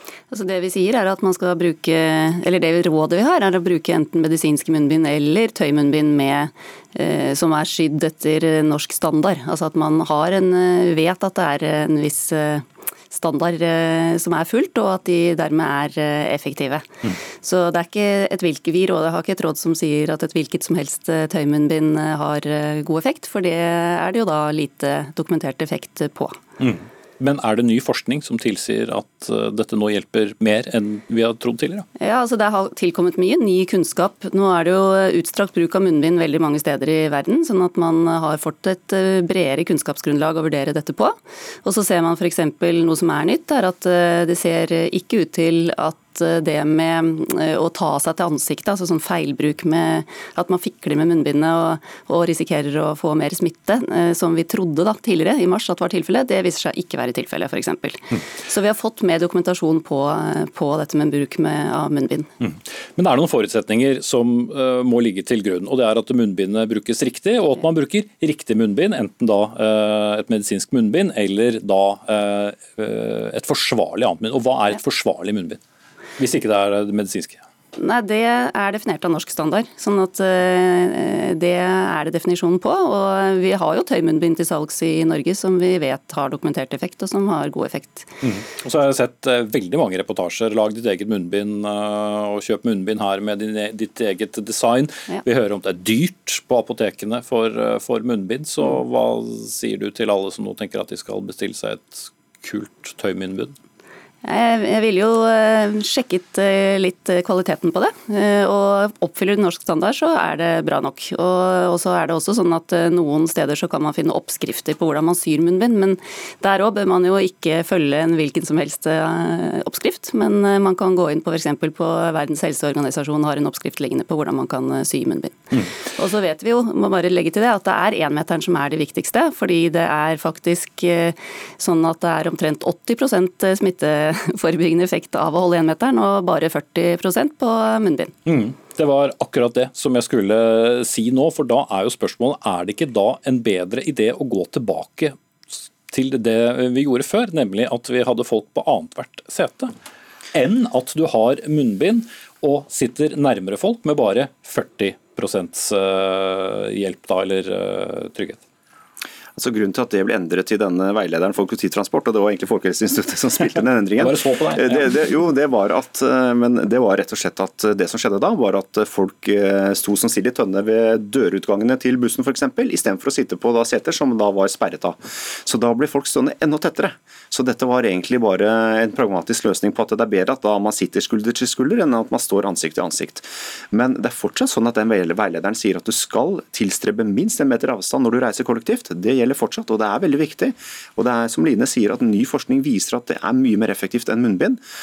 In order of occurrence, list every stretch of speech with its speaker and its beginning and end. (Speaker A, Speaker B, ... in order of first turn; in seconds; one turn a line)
Speaker A: 0.3-26.4
Speaker B: 26.6-31.9
Speaker A: 32.0-62.3
Speaker B: 62.4-75.6
Speaker B: 76.2-77.4
Speaker A: 77.8-88.1
Speaker B: 88.2-103.5
Speaker A: 104.2-138.1
Speaker B: 138.2-145.2
Speaker B: 145.9-149.7
Speaker B: 150.3-158.4
Speaker C: 159.3-194.6
Speaker B: 164.0-164.9